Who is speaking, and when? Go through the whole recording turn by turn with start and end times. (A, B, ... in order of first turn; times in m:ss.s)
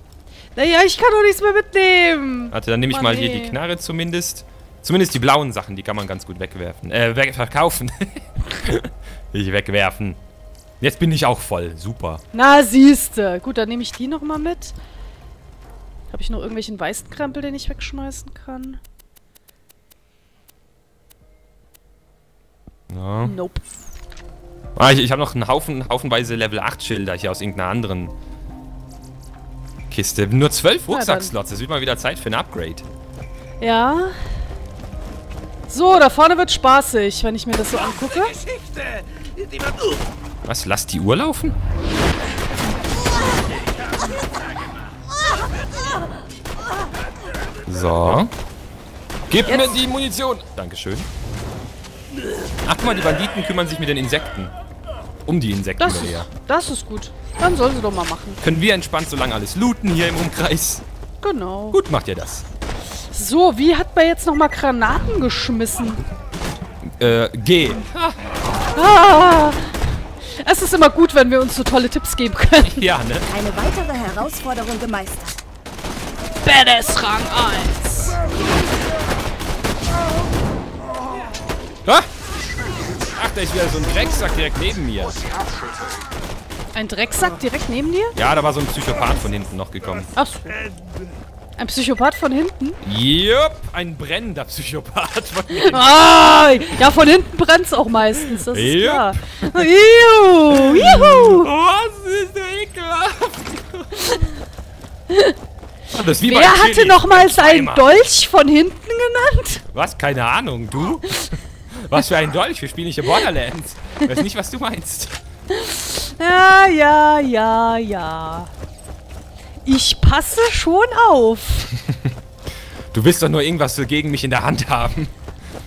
0:00.6-0:03.6 A
0:02.5-0:10.2 B
0:10.8-0:12.2 B
0:12.3-0:14.7 A
0:16.1-0:18.8 A
0:22.9-0:23.4 B
0:23.2-0:23.6 A
0:24.8-0:28.1 B
0:29.9-0:32.8 B
0:30.9-0:31.3 A
0:33.6-0:34.1 A
0:35.7-0:38.4 A
0:40.4-0:41.6 B
0:47.7-0:48.3 B
0:49.3-0:51.1 B
0:49.4-0:49.8 A
0:52.6-0:54.5 B
0:55.2-0:56.3 B
0:55.8-0:58.4 A
0:58.4-1:00.8 B
1:01.2-1:01.8 A
1:01.7-1:02.4 B
1:03.1-1:06.0 A
1:07.0-1:08.2 B
1:08.7-1:12.9 A
1:12.6-1:13.3 B
1:13.3-1:15.4 C
1:16.4-1:18.2 A
1:23.1-1:25.2 B
1:26.7-1:28.1 A
1:28.1-1:30.1 B
1:30.2-1:30.6 A
1:31.6-1:32.8 A
1:32.8-1:35.9 B
1:35.6-1:41.5 A
1:38.5-1:39.7 B
1:40.5-1:44.2 B
1:45.1-1:45.4 A
1:45.9-1:48.0 B
1:46.2-1:49.6 A
1:49.7-1:55.2 B
1:55.5-1:58.5 A
1:59.6-2:01.7 A
2:02.9-2:05.1 B